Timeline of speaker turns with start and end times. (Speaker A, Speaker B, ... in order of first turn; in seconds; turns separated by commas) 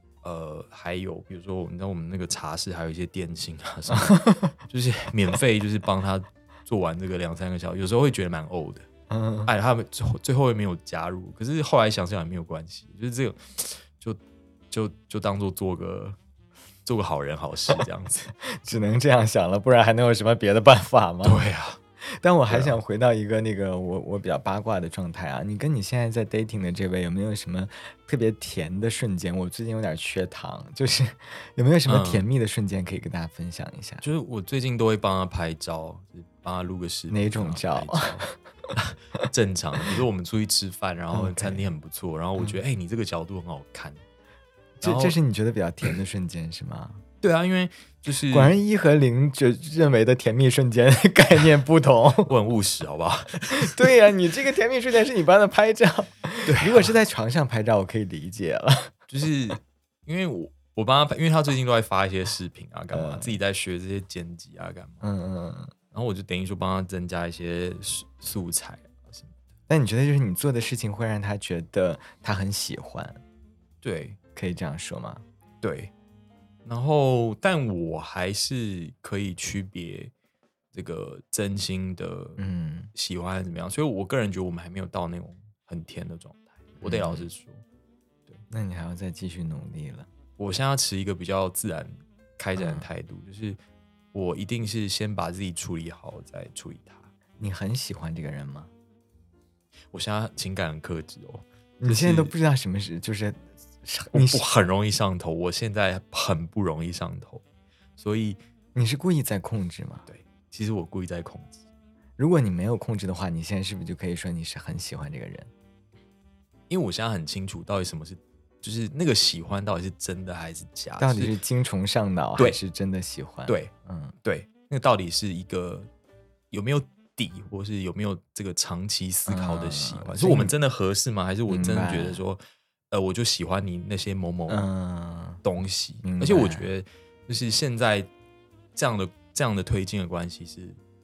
Speaker A: 0.2-8.9, Speaker B: 3.9-4.6, Speaker B: 9.1-9.5, Speaker A: 9.5-14.2, Speaker A: 14.7-16.2, Speaker A: 16.9-18.3, Speaker B: 18.4-21.4, Speaker A: 21.2-21.8, Speaker B: 22.0-34.0, Speaker A: 22.5-22.8, Speaker A: 31.9-32.3, Speaker A: 34.0-44.0, Speaker B: 37.1-38.4, Speaker B: 41.1-41.7, Speaker A: 44.8-45.2, Speaker B: 44.8-47.0, Speaker A: 47.2-48.6, Speaker B: 48.2-52.3, Speaker A: 52.2-53.9, Speaker B: 53.5-59.0, Speaker A: 56.5-57.0, Speaker A: 59.1-65.0, Speaker B: 62.9-63.4, Speaker B: 65.0-65.7, Speaker A: 65.9-69.4, Speaker B: 69.7-73.2, Speaker A: 73.8-74.2, Speaker B: 74.4-75.2, Speaker A: 75.6-75.9, Speaker A: 76.7-80.1, Speaker A: 80.7-82.4, Speaker B: 82.4-82.9, Speaker A: 83.0-87.7, Speaker B: 86.8-87.3, Speaker B: 88.5-90.1, Speaker A: 90.4-93.6, Speaker B: 92.6-92.9, Speaker A: 94.1-97.1, Speaker B: 97.4-98.7, Speaker A: 99.9-102.3, Speaker B: 101.8-104.5, Speaker A: 104.1-107.4, Speaker A: 108.0-108.4, Speaker B: 108.8-110.1, Speaker A: 110.1-111.6, Speaker B: 112.2-115.5, Speaker A: 116.7-121.4, Speaker B: 121.0-124.2, Speaker A: 124.2-125.9, Speaker A: 126.5-132.4, Speaker B: 129.3-130.5, Speaker B: 131.5-132.2, Speaker A: 132.9-134.7, Speaker B: 134.5-135.4, Speaker A: 135.4-138.1, Speaker B: 136.0-136.7, Speaker A: 138.8-140.8